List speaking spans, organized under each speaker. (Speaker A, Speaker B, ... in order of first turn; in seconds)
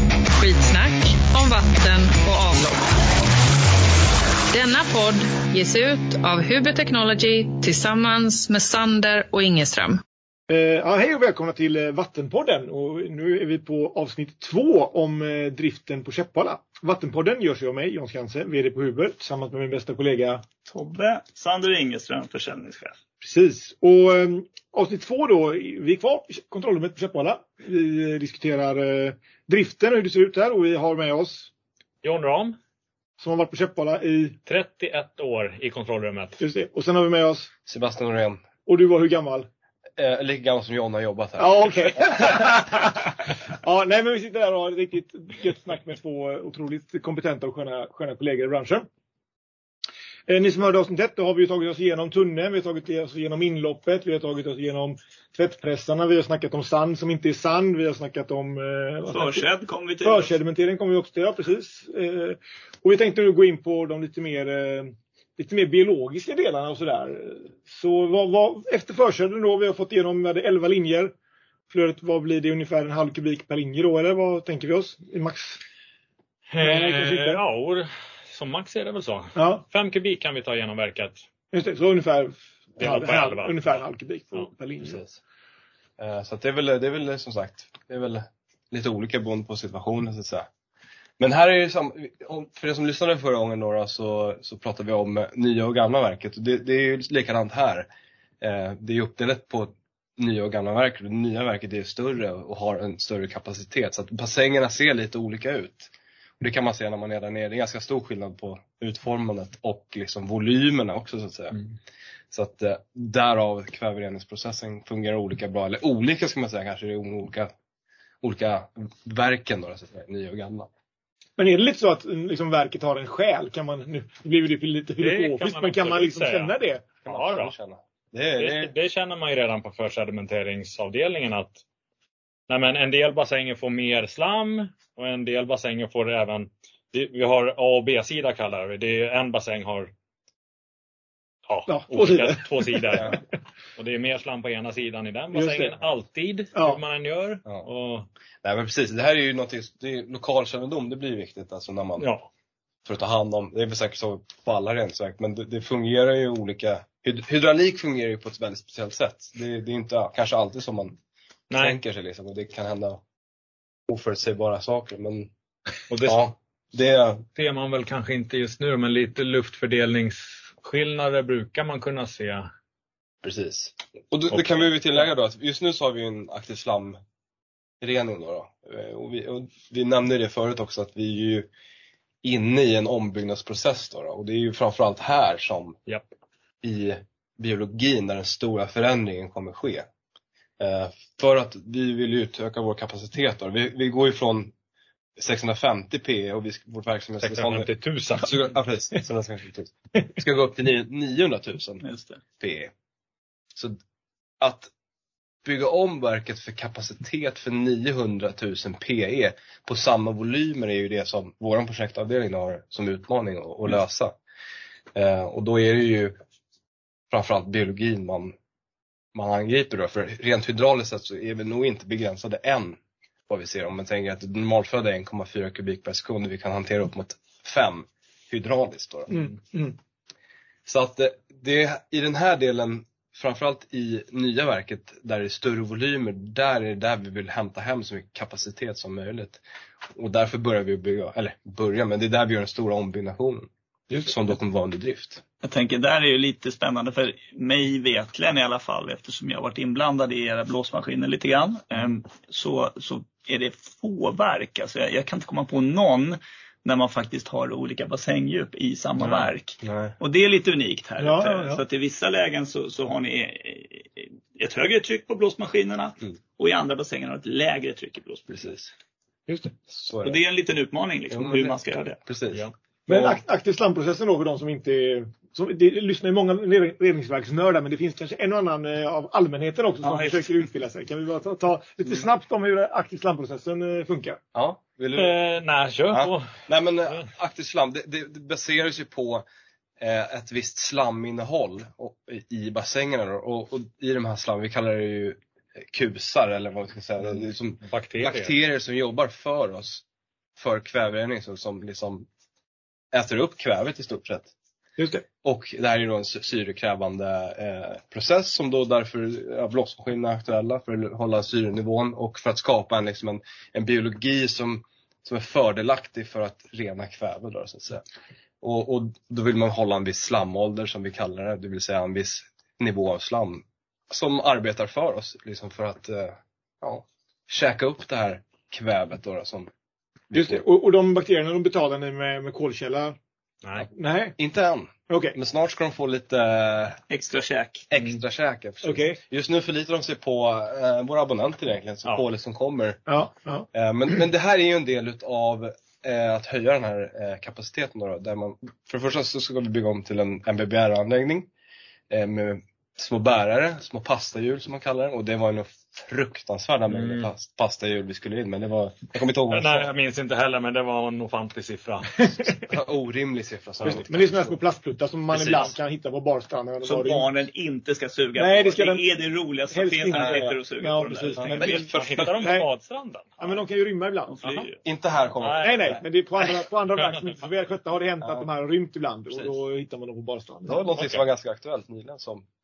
Speaker A: 0.4-2.9, 4.5-10.0
Speaker B: 10.5-20.4, 23.2-31.5, 33.2-34.4, 36.4-37.5, 38.6-39.5, 41.4-48.9, 50.3-59.5, 60.0-71.1, 71.7-75.6, 76.6-77.4, 79.4-79.7, 81.5-85.0, 121.4-126.9, 141.7-143.2, 145.3-145.8, 146.6-146.8, 229.1-229.8, 261.0-261.6, 269.3-269.5, 272.9-284.2, 304.8-305.1, 330.1-333.0, 333.7-334.2, 334.9-335.2, 338.6-339.0, 342.9-343.5, 363.6-367.1, 368.2-368.8, 369.5-372.5, 373.2-374.2, 375.4-380.6
Speaker C: 20.7-23.0, 59.1-60.3, 201.8-202.2, 245.4-268.3, 270.0-272.0, 279.8-280.3, 336.9-337.7, 365.1-365.5, 366.6-371.6, 374.1-374.5
Speaker D: 32.0-32.6, 34.5-36.4, 76.5-81.2, 82.8-83.8, 125.0-127.5, 128.4-131.6, 132.5-139.9, 141.5-143.2, 143.8-148.1, 152.0-152.3, 161.5-161.8, 165.9-166.3, 167.4-172.5, 174.3-174.7, 197.2-198.4, 284.9-286.4, 297.6-298.3, 356.7-357.1, 359.3-362.1, 371.5-373.2, 375.2-377.2, 380.7-381.0
Speaker E: 37.7-38.4, 40.0-42.1, 84.8-85.2, 86.0-90.5, 91.2-97.9, 98.4-111.6, 112.3-117.5, 118.2-120.7, 127.0-128.7, 148.4-152.1, 152.9-161.0, 161.6-163.0, 163.9-165.3, 166.0-167.3, 173.2-177.0, 177.8-181.5, 182.2-185.8, 186.6-189.9, 190.6-194.5, 195.2-201.8, 202.4-202.7, 204.4-204.7, 205.4-214.2, 214.9-216.2, 217.1-218.3, 219.2-222.8, 223.3-229.2, 230.7-239.4, 239.9-243.5, 244.0-245.2, 259.6-259.9, 268.3-268.7, 269.7-270.2, 271.1-271.6, 272.1-273.2, 284.4-285.2, 285.9-289.2, 289.8-299.8, 300.4-302.1, 302.9-304.3, 305.2-317.8, 318.4-329.5, 330.1-330.4, 334.2-336.8, 337.7-342.8, 343.5-351.3, 351.9-359.7, 362.3-364.4, 365.1-365.5, 369.9-370.3, 371.2-372.2, 374.6-375.8, 378.0-378.3, 379.1-379.4, 380.5-382.3